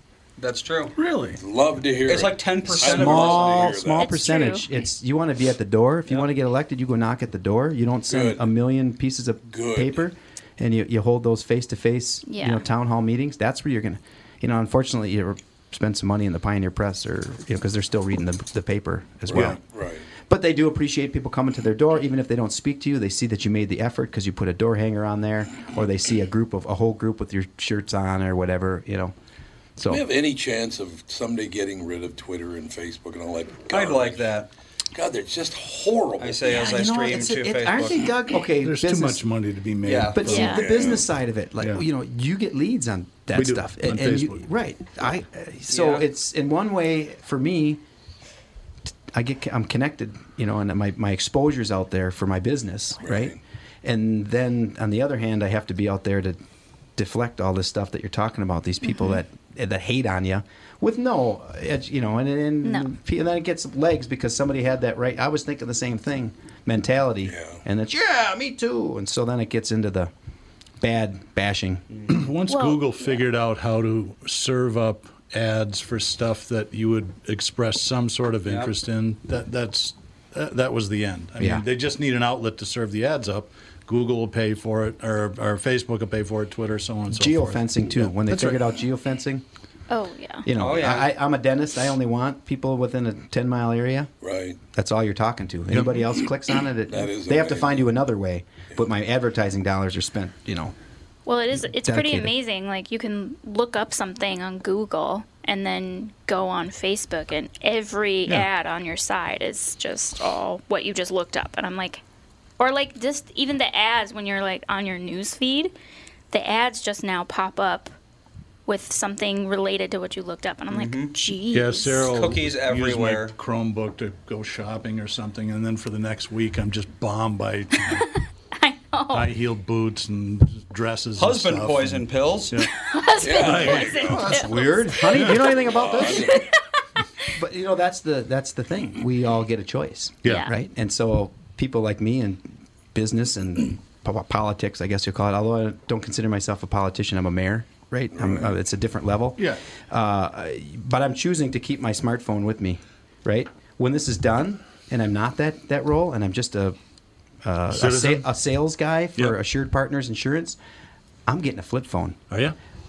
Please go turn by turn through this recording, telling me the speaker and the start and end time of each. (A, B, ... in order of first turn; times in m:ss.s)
0:00.4-0:00.9 A
0:01.0-0:01.4 B
0:01.4-0:04.1 C
0:02.1-0:03.7 A
0:02.8-0:19.6 D
0:03.7-0:04.7 E
0:08.1-0:08.4 C
0:09.5-0:10.0 C
0:12.3-0:12.6 E
0:19.3-0:20.1 C
0:19.3-0:19.6 B
0:20.3-0:29.1 D
0:29.8-0:30.0 D
0:29.9-0:34.3 C
0:33.7-0:34.5 A
0:34.9-0:36.9 C
0:36.2-0:38.1 A
0:36.6-0:39.2 D
0:38.6-0:40.6 B
0:39.8-0:40.5 A
0:40.1-0:47.8 D
0:40.2-0:40.7 E
0:40.6-0:41.1 C
0:43.3-0:44.4 B
0:45.7-0:46.0 A
0:49.1-0:56.4 D
0:53.0-0:53.4 C
0:57.0-1:10.1 D
0:58.9-0:59.2 E
1:02.6-1:02.9 E
1:07.2-1:07.6 C
1:10.8-1:11.8 D
1:12.1-1:28.6 B
1:12.5-1:13.1 E
1:18.5-1:18.7 A
1:21.4-1:21.6 D
1:27.1-1:29.4 D
1:29.9-1:30.5 E
1:30.5-1:34.1 D
1:30.5-1:31.1 A
1:34.2-1:34.6 C
1:34.7-1:40.7 D
1:35.7-1:36.0 B
1:36.9-1:37.9 C
1:41.3-1:52.0 E
1:41.6-1:42.3 D
1:52.6-1:55.7 E
1:56.3-1:57.9 E
1:58.7-2:02.1 E
2:00.7-2:01.2 A
2:01.5-2:08.1 B
2:02.0-2:03.3 A
2:07.8-2:09.3 E
2:09.1-2:14.4 B
2:11.2-2:12.6 A
2:12.7-2:16.6 E
2:13.2-2:14.4 C
2:13.7-2:16.4 D
2:15.1-2:15.4 B
2:15.4-2:16.5 C
2:17.3-2:36.8 D
2:37.4-2:40.6 D
2:37.7-2:38.3 B
2:41.3-2:42.2 D
2:42.3-2:42.6 B